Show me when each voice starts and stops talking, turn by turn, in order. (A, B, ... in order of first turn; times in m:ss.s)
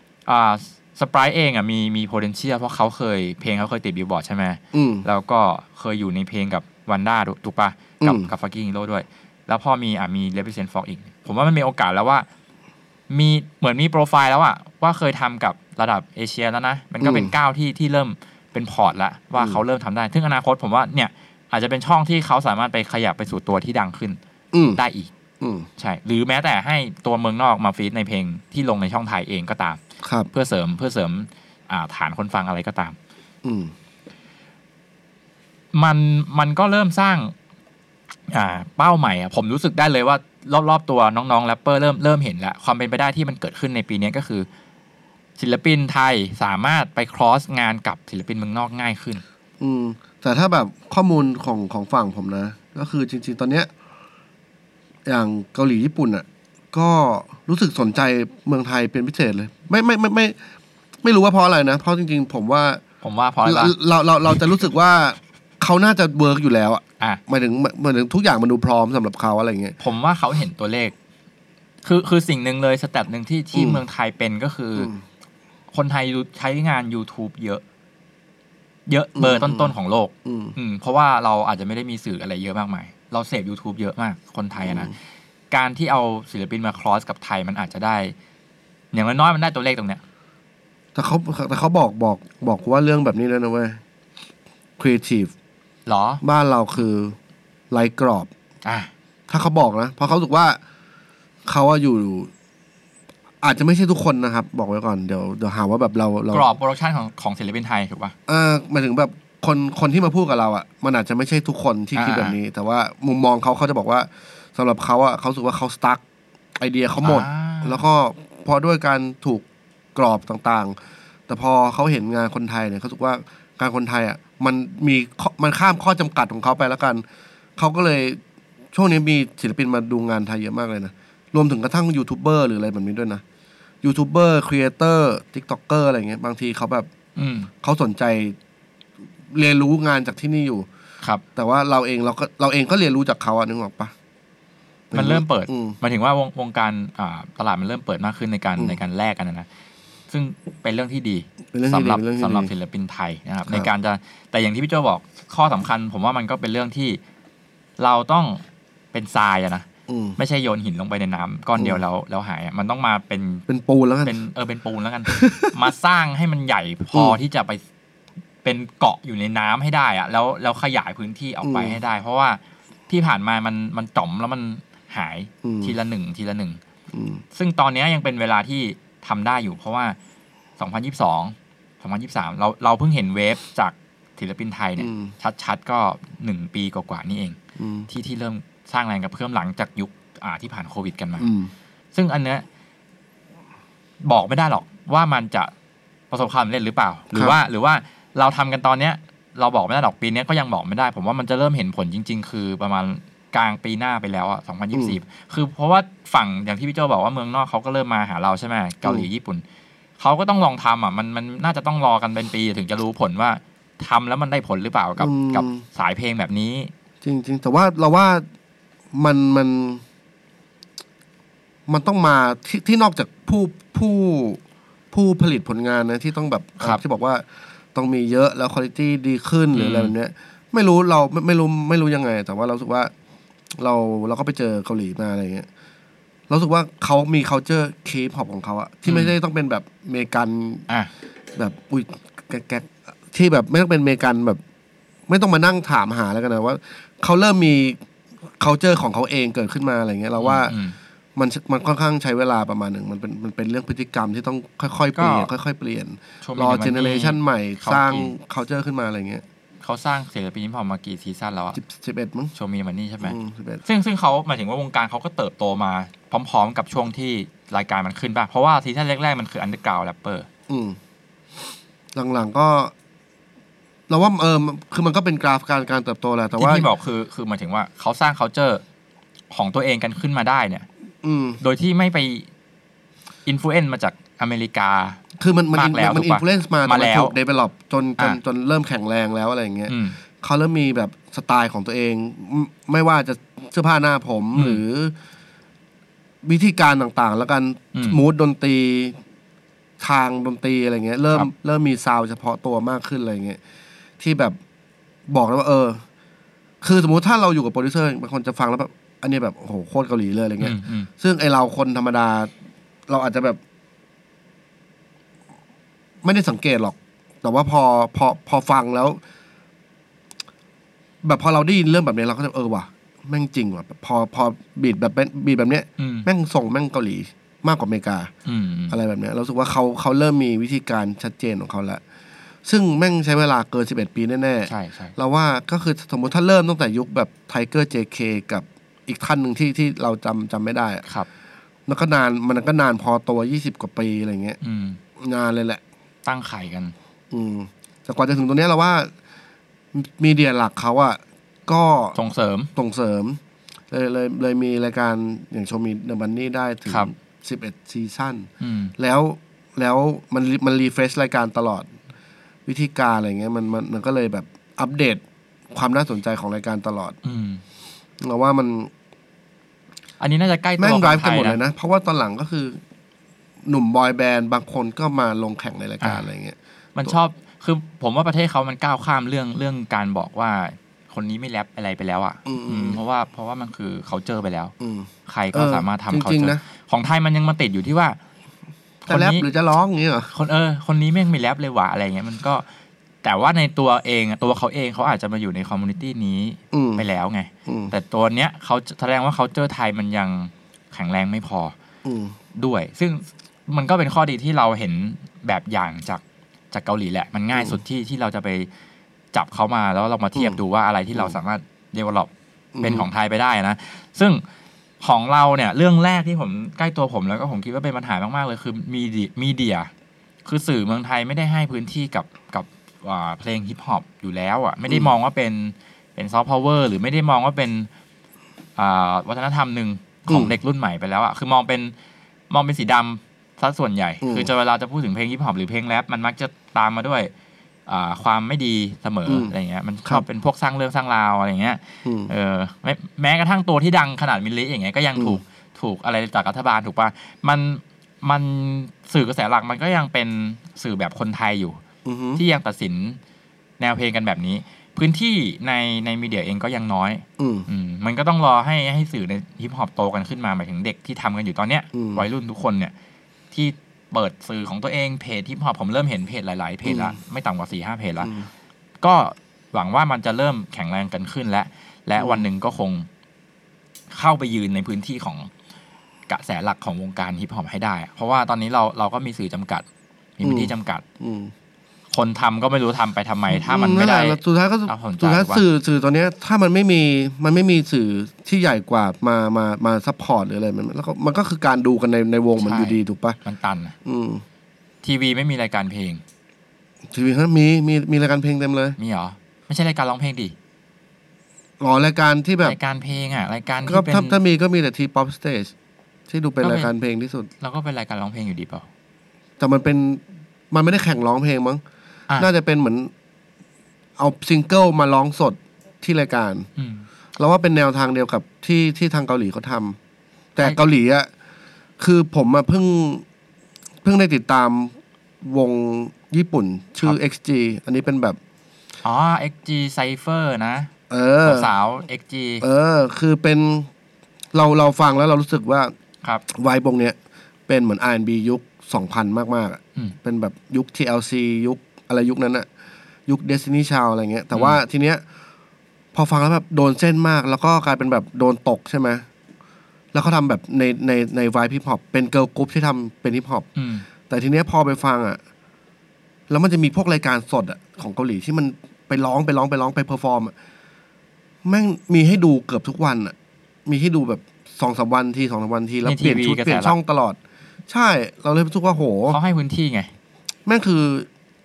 0:00.3-0:12.2 A
0:04.7-0:05.0 B
0:08.0-0:08.3 B
0:13.1-0:24.2 A
0:17.0-0:17.3 B
0:24.5-0:24.8 B
0:24.8-0:25.1 A
0:25.4-0:25.7 B
0:25.8-0:29.8 A
0:30.0-0:30.3 B
0:30.3-0:33.0 A
0:33.4-0:33.7 B
0:35.7-0:37.3 A
0:38.3-0:44.5 A
0:45.4-0:49.2 A
0:49.6-0:53.7 B
0:55.0-1:00.4 B
1:01.0-1:02.8 B
1:03.0-1:03.7 A
1:03.4-1:09.7 B
1:09.8-1:10.9 A
1:11.8-1:14.9 A
1:13.5-1:13.8 B
1:14.8-1:15.0 B
1:15.7-1:17.6 A
1:18.9-1:24.9 A
1:19.2-1:19.7 B
1:20.2-1:20.6 B
1:24.6-1:24.9 B
1:25.5-1:28.1 A
1:28.9-1:30.0 A
1:30.9-1:33.8 B
1:34.8-1:35.3 B
1:35.8-1:36.2 A
1:36.2-1:37.2 B
1:37.7-1:38.3 B
1:38.6-1:38.9 A
1:39.3-1:40.6 B
1:41.4-1:42.3 B
1:43.4-1:46.5 B
1:46.3-1:48.1 A
1:48.3-1:56.0 B
1:51.9-1:52.4 A
1:56.6-2:00.8 B
1:57.0-1:57.8 A
2:01.3-2:07.0 B
2:07.6-2:08.2 B
2:08.7-2:13.2 B
2:13.8-2:16.9 B
2:17.2-2:17.5 A
2:17.6-2:18.4 B
2:19.3-2:20.7 B
2:21.4-2:23.9 B
2:24.9-2:25.8 B
2:24.9-2:29.5 A
2:30.1-2:37.0 A
2:31.5-2:32.5 B
2:37.8-2:38.4 A
2:38.9-2:43.4 A
2:39.9-2:40.2 B
2:43.5-2:44.1 B
2:44.0-2:47.6 A
2:45.1-2:45.5 B
2:48.4-2:56.6 A
2:51.4-2:51.8 B
2:55.4-2:55.7 B
2:56.9-2:57.2 B
2:57.3-3:00.0 A
3:00.6-3:11.3 A
3:04.8-3:05.1 B
3:07.6-3:07.9 B
3:11.2-3:11.5 B
3:11.9-3:12.4 A
3:14.0-3:15.5 A
3:16.1-3:29.4 A
3:30.0-3:36.7 A
3:35.0-3:35.6 B
3:37.0-3:38.2 B
3:38.9-3:39.8 B
3:41.7-3:44.4 B
3:44.9-3:52.9 B
3:49.5-3:49.9 A
3:53.6-3:55.5 B
3:56.3-4:00.6 B
3:58.8-3:59.1 A
4:01.3-4:04.4 B
4:05.1-4:07.8 B
4:08.4-4:10.5 B
4:10.2-4:10.8 A
4:11.2-4:19.2 B
4:14.9-4:15.3 A
4:16.2-4:18.1 A
4:19.6-4:21.6 A
4:21.5-4:22.3 B
4:22.3-4:30.3 A
4:23.0-4:23.6 B
4:30.5-4:30.8 B
4:31.9-4:32.7 B
4:33.9-4:36.7 B
4:36.4-4:38.6 A
4:39.3-4:40.6 A
4:41.0-4:41.4 B
4:41.4-4:42.3 A
4:43.2-4:45.0 A
4:45.2-4:54.9 B
4:45.5-4:47.1 A
4:49.7-4:50.0 A
4:54.3-4:54.6 A
4:56.2-4:59.0 B
4:57.7-4:58.0 A
4:59.8-5:03.4 B
5:04.0-5:04.4 B
5:05.1-5:05.8 B
5:06.6-5:12.3 B
5:10.4-5:10.9 A
5:12.9-5:13.4 B
5:16.0-5:19.0 B
5:21.0-5:28.1 B
5:25.8-5:26.1 A
5:28.2-5:28.8 A
5:28.7-5:31.8 B
5:32.4-5:40.8 B
5:34.4-5:34.9 A
5:41.7-5:44.4 B
5:44.4-5:44.8 A
5:45.0-5:45.6 B
5:46.0-5:46.7 A
5:47.1-5:48.9 B
5:49.7-5:52.0 B
5:51.9-5:52.5 A
5:52.6-5:53.2 B
5:53.7-6:01.7 B
5:58.4-5:58.7 A
6:02.4-6:07.0 B
6:07.0-6:07.4 A
6:08.0-6:08.7 B
6:10.0-6:11.4 A
6:10.6-6:12.6 B
6:13.4-6:17.0 B
6:16.7-6:24.5 A
6:22.3-6:22.8 B
6:24.6-6:26.4 B
6:25.1-6:28.0 A
6:28.8-6:29.2 A
6:28.9-6:30.1 B
6:30.1-6:32.4 A
6:33.0-6:41.5 A
6:36.5-6:36.8 B
6:37.4-6:37.7 B
6:41.8-6:42.2 B
6:42.4-6:48.5 A
6:47.3-6:47.6 B
6:49.1-6:52.1 A
6:50.1-6:50.4 B
6:52.5-6:52.8 B
6:52.6-6:54.2 A
6:54.8-6:59.7 A
7:00.2-7:07.7 A
7:08.6-7:11.7 A
7:10.1-7:10.3 B
7:12.3-7:17.1 A
7:14.0-7:14.3 B
7:17.7-7:31.6 A
7:19.1-7:19.3 B
7:21.8-7:22.1 B
7:25.0-7:25.2 B
7:31.8-7:32.2 B
7:32.2-7:33.0 A
7:33.6-7:42.7 A
7:37.2-7:37.5 B
7:41.7-7:42.0 B
7:43.3-7:48.1 A
7:46.6-7:47.0 B
7:48.0-7:48.3 B
7:48.8-7:52.9 A
7:52.0-7:52.2 B
7:53.9-7:55.3 A
7:56.1-7:59.6 A
8:00.2-8:00.8 A
8:00.2-8:01.3 B
8:01.9-8:05.4 A
8:03.3-8:13.2 B
8:12.4-8:13.8 A
8:13.8-8:14.2 B
8:14.8-8:16.0 A
8:16.9-8:18.8 B
8:18.8-8:20.3 A
8:21.6-8:22.6 B
8:22.4-8:24.2 A
8:23.7-8:25.5 B
8:26.1-8:27.3 B
8:26.4-8:26.7 A
8:27.4-8:28.6 A
8:29.4-8:31.6 B
8:32.2-8:32.9 B
8:34.0-8:36.5 B
8:36.6-8:36.8 A
8:37.2-8:39.8 B
8:40.3-8:41.1 B
8:41.8-8:43.0 B
8:43.8-8:48.2 B
8:48.8-8:50.7 A
8:50.9-8:51.5 B
8:51.2-8:52.4 A
8:52.4-8:53.7 B
8:54.3-8:55.7 B
8:56.3-8:57.0 B
8:57.5-9:02.5 B
9:03.1-9:05.0 B
9:04.3-9:04.6 A
9:05.9-9:09.0 B
9:09.9-9:13.5 B
9:13.6-9:13.9 A
9:14.1-9:15.2 B
9:16.3-9:20.3 B
9:21.4-9:23.1 B
9:23.6-9:29.2 B
9:25.8-9:26.7 A
9:29.1-9:29.9 A
9:30.4-9:31.1 B